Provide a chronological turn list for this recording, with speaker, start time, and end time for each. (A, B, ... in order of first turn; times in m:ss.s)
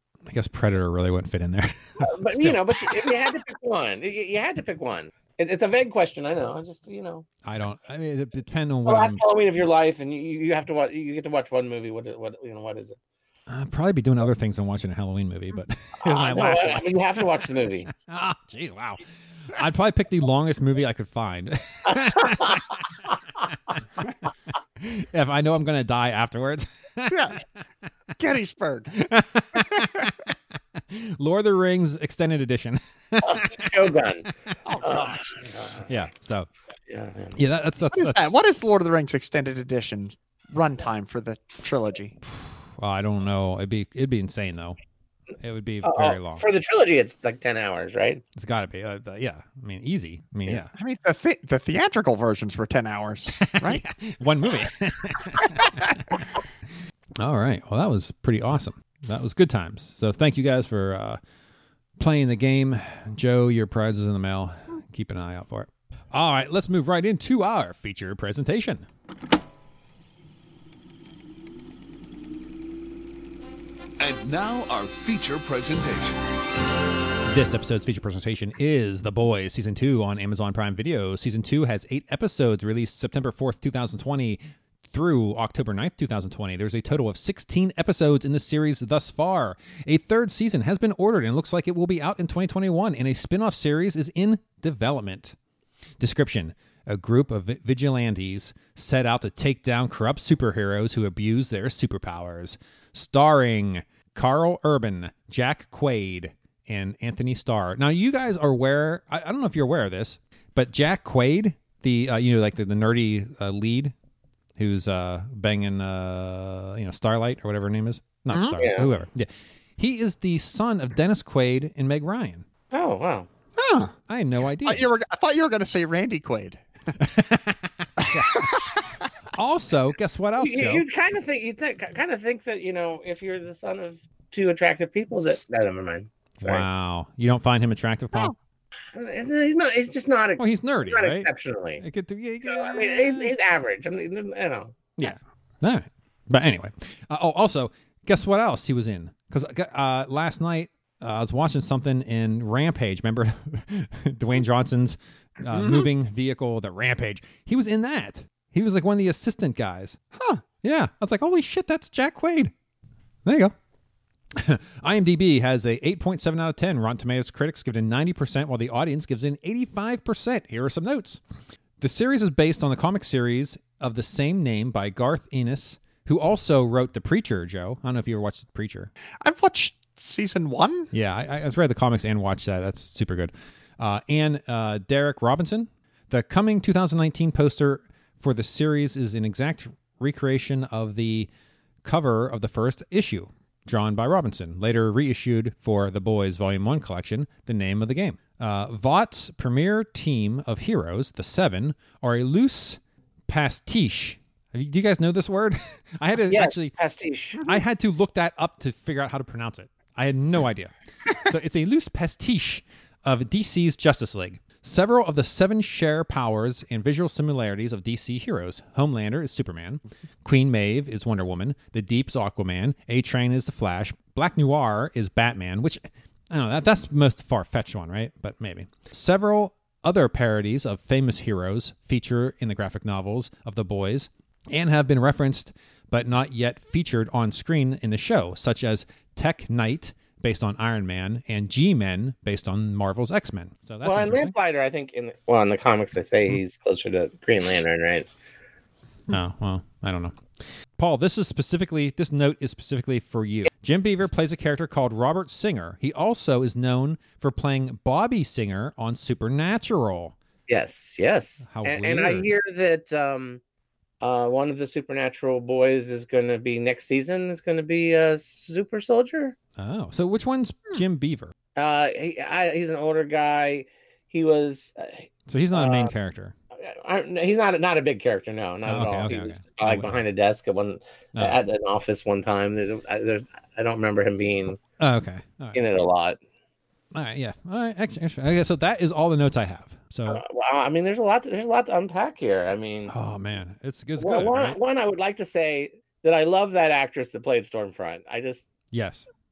0:00.2-0:02.6 A
0:02.0-0:07.2 B
0:07.4-0:09.2 A
0:08.8-0:13.0 B
0:13.5-0:17.0 A
0:16.0-0:17.9 B
0:17.9-0:22.8 A
0:21.9-0:22.6 B
0:24.8-0:27.4 A
0:27.1-0:27.4 C
0:28.2-0:28.9 C
0:28.9-0:30.3 A
0:29.5-0:30.1 C
0:30.9-0:33.6 A
0:33.2-0:34.3 B
0:34.6-0:35.2 C
0:34.8-0:35.9 B
0:35.9-0:36.5 A
0:36.9-0:37.4 B
0:37.3-0:38.4 A
0:37.9-0:42.2 C
0:42.2-0:44.8 A
0:45.4-0:46.4 A
0:45.8-0:48.2 B
0:48.4-0:50.7 A
0:50.7-0:53.8 C
0:53.4-0:56.2 A
0:57.2-1:01.2 A
1:02.0-1:08.8 A
1:14.0-1:16.2 D
1:17.3-1:35.4 A
1:36.0-1:53.9 A
1:54.6-2:02.4 A
1:58.3-1:58.6 C
1:58.6-1:58.9 B
2:02.7-2:03.3 B
2:03.6-2:03.9 C
2:04.1-2:04.8 A
2:04.6-2:06.6 C
2:07.0-2:08.5 A
2:08.0-2:09.0 C
2:09.3-2:10.8 A
2:10.4-2:16.6 B
2:16.4-2:18.3 A
2:18.9-2:21.8 B
2:20.4-2:21.3 A
2:21.8-2:23.3 A
2:22.4-2:24.8 B
2:25.0-2:40.0 A
2:35.5-2:35.9 C
2:40.1-2:40.4 C
2:40.6-2:42.5 A
2:43.2-2:43.5 A
2:44.4-2:51.2 A
2:51.8-2:58.9 A
2:59.2-3:00.9 C
3:00.9-3:11.3 A
3:11.8-3:26.7 A
3:26.3-3:27.5 B
3:27.5-4:04.3 A
4:03.8-4:08.1 B
4:09.1-4:10.2 A
4:10.8-4:20.2 A
4:20.5-4:23.4 B
4:21.4-4:22.3 A
4:24.0-4:29.3 B
4:29.6-4:31.3 A
4:31.6-4:35.9 B
4:35.3-4:36.3 A
4:36.6-4:44.6 B
4:38.6-4:40.0 A
4:44.8-4:45.6 A
4:45.5-4:46.2 B
4:46.9-4:50.2 A
4:50.1-4:52.9 B
4:52.9-4:54.6 A
4:54.0-4:58.5 B
4:58.7-4:59.1 A